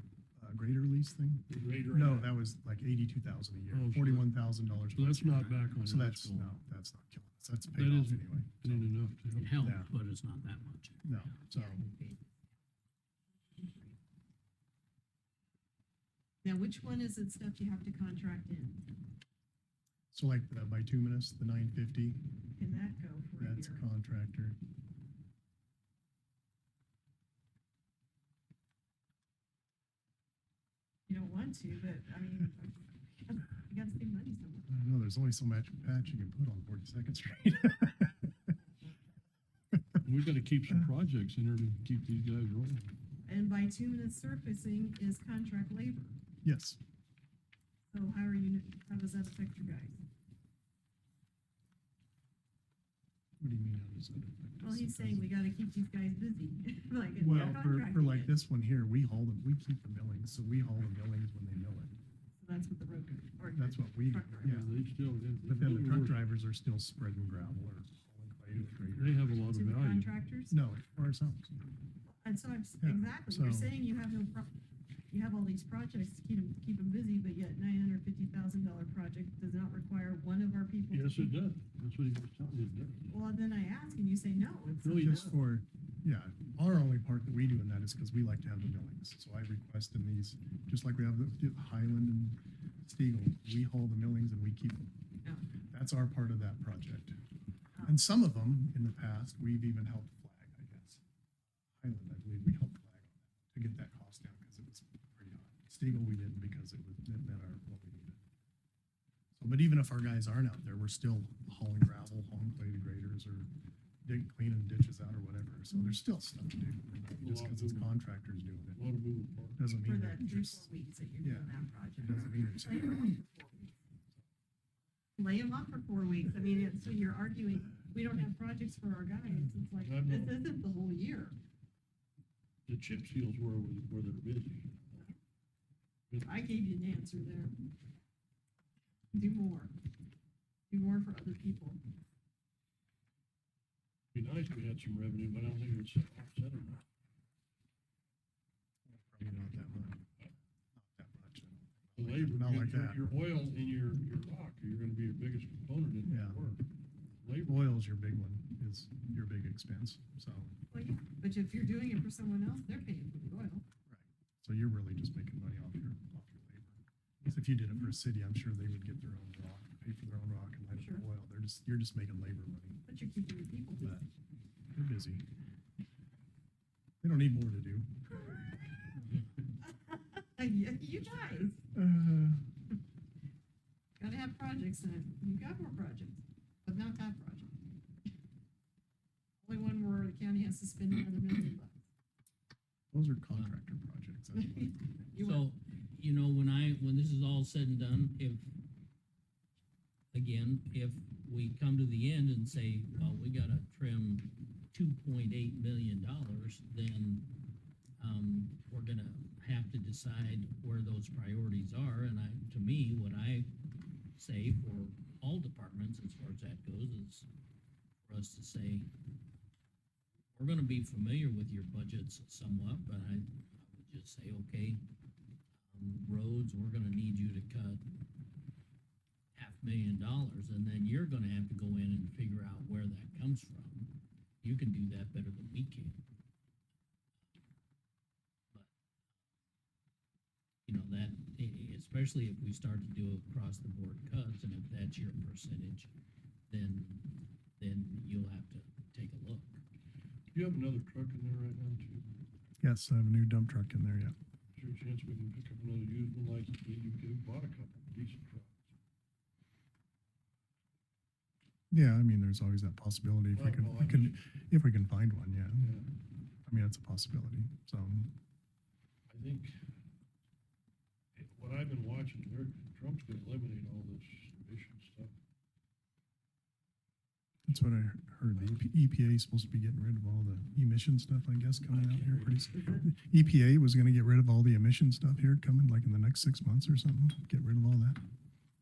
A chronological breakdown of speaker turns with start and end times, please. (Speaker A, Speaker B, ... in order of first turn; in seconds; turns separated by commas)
Speaker A: 0.3-8.9, Speaker B: 1.5-2.4, Speaker B: 3.7-4.3, Speaker B: 4.9-6.6, Speaker B: 7.7-9.7, Speaker C: 9.3-11.3, Speaker A: 9.6-9.9, Speaker A: 11.0-11.8, Speaker D: 11.5-12.3, Speaker D: 13.5-14.0, Speaker D: 16.4-18.9, Speaker A: 20.1-22.3, Speaker D: 22.5-23.8, Speaker A: 23.4-24.6, Speaker D: 31.1-34.7, Speaker A: 34.7-38.4, Speaker B: 40.0-42.9, Speaker D: 43.2-46.1, Speaker A: 46.4-46.8, Speaker D: 47.9-50.0, Speaker A: 53.4-55.3, Speaker D: 54.6-58.4, Speaker A: 57.2-62.0, Speaker D: 62.4-64.6, Speaker A: 63.5-64.7, Speaker B: 64.4-66.2, Speaker A: 65.5-69.4, Speaker B: 68.9-70.1, Speaker D: 69.4-70.6, Speaker A: 70.5-71.5, Speaker D: 72.2-74.5, Speaker A: 72.8-73.7, Speaker D: 75.1-81.4, Speaker B: 80.9-83.1, Speaker D: 83.1-85.3, Speaker B: 84.8-85.4, Speaker A: 85.0-94.9, Speaker A: 95.7-97.2, Speaker A: 97.8-101.0, Speaker A: 101.8-108.2, Speaker A: 109.3-113.5, Speaker A: 114.0-118.8, Speaker B: 117.2-118.0, Speaker B: 118.7-119.7, Speaker A: 119.5-120.7, Speaker D: 119.8-123.7, Speaker A: 121.2-123.1, Speaker D: 125.2-131.3, Speaker B: 129.8-130.4, Speaker B: 132.7-135.1, Speaker B: 136.1-136.4, Speaker D: 136.2-137.5, Speaker D: 139.1-139.7, Speaker D: 140.7-141.8, Speaker B: 144.1-146.8, Speaker A: 148.8-150.1, Speaker A: 150.7-153.0, Speaker B: 152.0-157.7, Speaker A: 156.0-156.4, Speaker A: 157.5-160.6, Speaker D: 160.7-163.7, Speaker A: 163.8-172.8, Speaker D: 170.7-171.0, Speaker D: 172.8-174.0, Speaker A: 173.8-174.1, Speaker A: 174.7-175.2, Speaker A: 177.0-177.9, Speaker D: 178.2-179.0, Speaker D: 179.6-181.6, Speaker A: 181.7-182.4, Speaker D: 184.0-187.5, Speaker D: 189.4-191.8, Speaker A: 192.9-194.8, Speaker D: 194.3-195.5, Speaker C: 195.2-198.6, Speaker C: 200.1-207.4, Speaker C: 208.0-213.5, Speaker C: 214.1-217.3, Speaker C: 218.0-218.9, Speaker C: 220.3-224.8, Speaker C: 225.7-227.8, Speaker C: 229.3-236.1, Speaker C: 240.7-245.9, Speaker C: 246.5-249.6, Speaker B: 250.3-252.2, Speaker A: 252.6-254.1, Speaker B: 254.5-258.7, Speaker A: 261.7-265.7, Speaker B: 263.3-264.2, Speaker B: 265.6-265.9, Speaker A: 266.4-268.1, Speaker B: 269.1-269.6, Speaker B: 271.1-275.1, Speaker A: 277.4-288.0, Speaker B: 281.7-282.4, Speaker D: 282.5-282.8